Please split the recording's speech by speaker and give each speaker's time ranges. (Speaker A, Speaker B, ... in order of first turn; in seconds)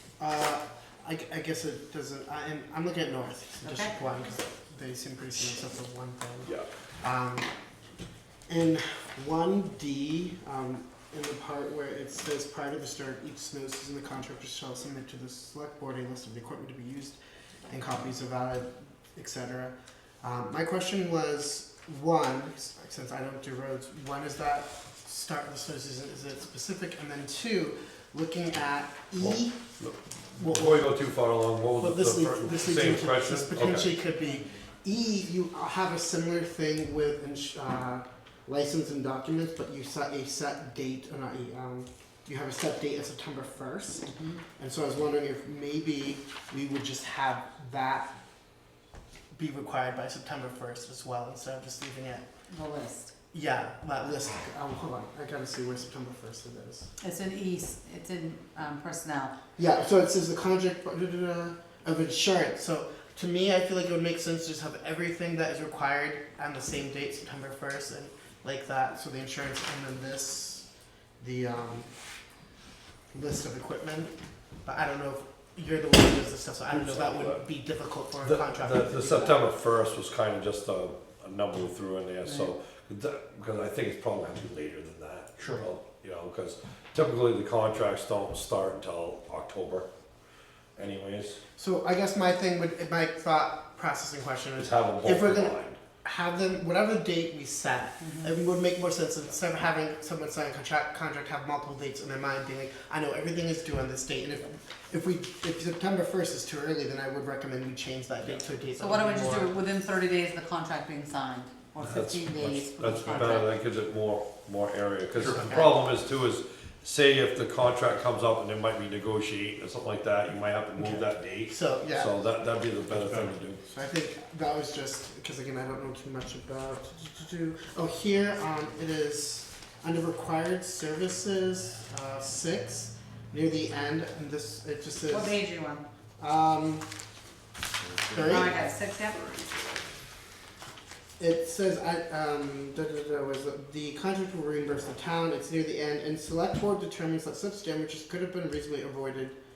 Speaker A: 0.2-7.5, 8.5-29.6, 30.4-31.0, 31.8-48.1, 49.3-52.2, 53.3-56.9, 59.6-70.7, 71.2-71.9, 73.1-74.1, 74.6-79.4, 91.5-109.5, 121.5-122.1, 123.6-135.4, 136.2-136.9, 138.1-138.6, 141.2-149.4
Speaker B: 3.6-4.0, 52.5-53.1, 57.0-59.3, 98.0-98.3, 108.8-113.5, 115.4-115.8, 135.1-135.8, 138.2-139.2
Speaker C: 29.2-33.9, 76.7-77.4, 78.2-89.9, 90.8-91.4, 94.6-95.8, 111.8-123.6